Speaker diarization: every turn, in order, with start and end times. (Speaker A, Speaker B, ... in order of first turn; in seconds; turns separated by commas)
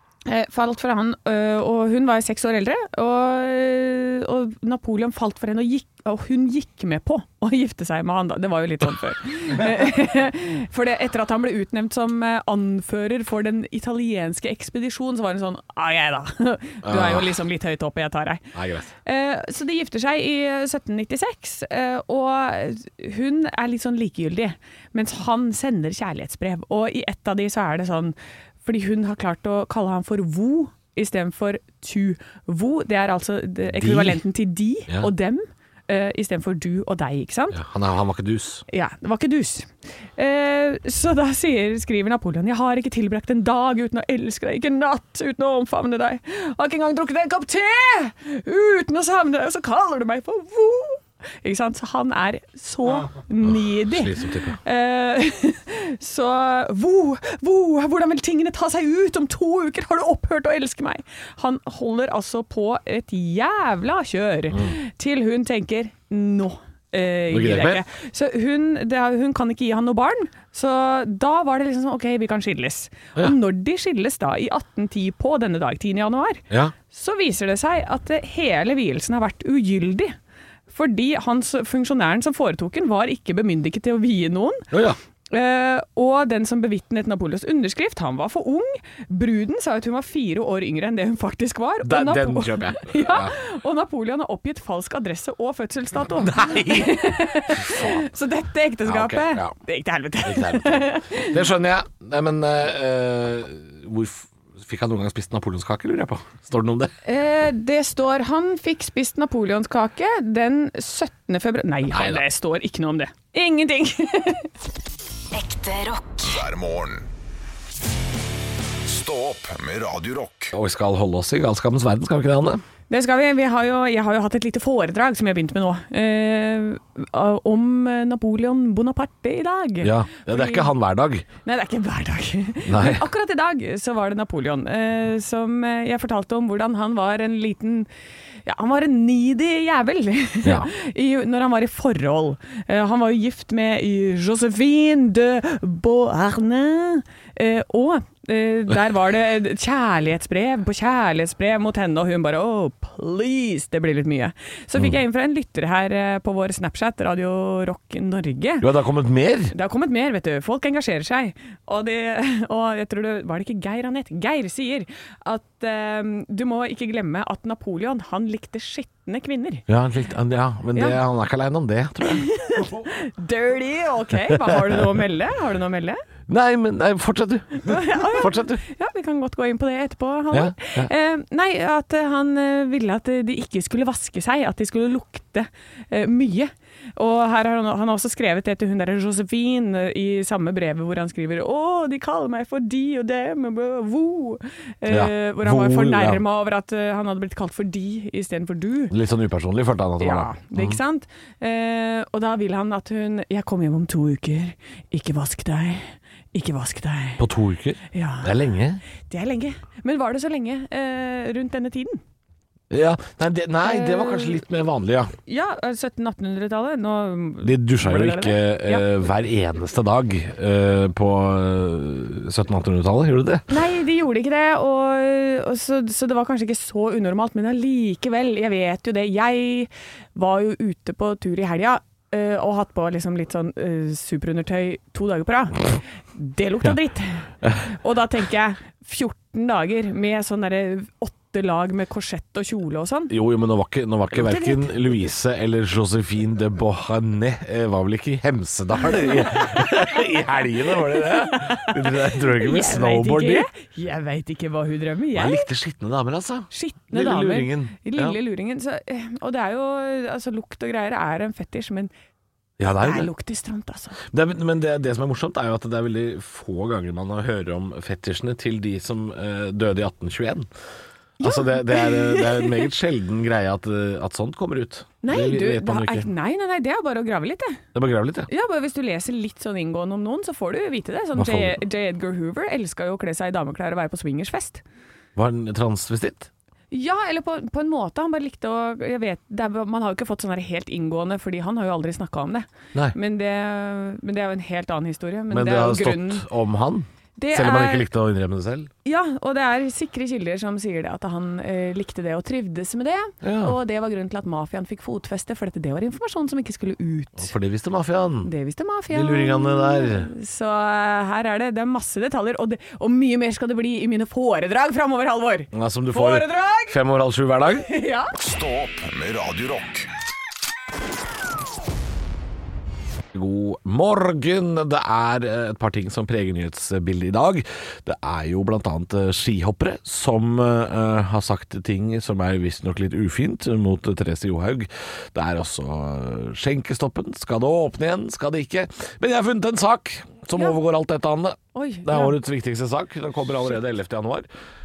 Speaker A: 0.3-18.5, Speaker B: 16.8-17.4, Speaker B: 18.5-18.9, Speaker A: 19.0-37.6, Speaker B: 33.7-34.2, Speaker B: 37.5-38.6, Speaker A: 38.7-80.2, Speaker B: 53.4-54.6, Speaker B: 67.3-67.8, Speaker A: 80.7-84.7, Speaker B: 84.7-85.0, Speaker A: 85.3-101.4, Speaker B: 91.8-93.3, Speaker B: 96.2-98.1, Speaker B: 98.8-99.5, Speaker B: 100.2-106.9, Speaker A: 107.0-114.5, Speaker B: 111.9-112.2, Speaker C: 115.3-117.1, Speaker C: 118.8-120.5, Speaker B: 120.5-122.6, Speaker A: 122.9-130.7, Speaker B: 129.8-131.3, Speaker A: 131.4-137.9, Speaker B: 132.7-133.0, Speaker A: 138.4-158.7, Speaker B: 140.4-140.7, Speaker B: 158.6-159.5, Speaker A: 159.5-169.7, Speaker B: 169.7-172.3, Speaker A: 170.7-171.0, Speaker A: 172.1-176.0, Speaker B: 174.3-174.8, Speaker B: 176.3-178.6, Speaker A: 177.6-198.9, Speaker B: 180.3-180.9, Speaker B: 194.9-196.2, Speaker B: 198.9-200.8, Speaker A: 200.0-207.2, Speaker B: 207.2-208.8, Speaker A: 207.9-208.3, Speaker A: 209.1-212.0, Speaker B: 212.7-215.1, Speaker A: 213.6-214.4, Speaker A: 215.3-218.9, Speaker B: 217.4-223.5, Speaker A: 223.5-243.1, Speaker B: 243.1-253.5, Speaker A: 244.1-244.7, Speaker A: 251.2-255.5, Speaker B: 255.1-258.2, Speaker A: 256.5-261.9, Speaker B: 262.6-263.1, Speaker A: 262.8-264.0, Speaker B: 264.1-270.5, Speaker A: 271.2-272.7, Speaker B: 271.2-276.1, Speaker A: 275.0-277.6, Speaker B: 277.8-278.3, Speaker A: 278.3-284.6, Speaker B: 281.1-281.6, Speaker B: 285.2-286.3, Speaker A: 286.7-296.2, Speaker B: 295.3-298.7, Speaker A: 297.2-297.9, Speaker A: 298.9-307.3, Speaker B: 303.2-303.6, Speaker B: 307.2-308.3, Speaker A: 308.2-316.8, Speaker B: 308.9-310.1, Speaker B: 315.5-317.7, Speaker A: 317.6-318.1, Speaker C: 318.2-319.9, Speaker B: 323.1-344.3, Speaker A: 341.5-342.2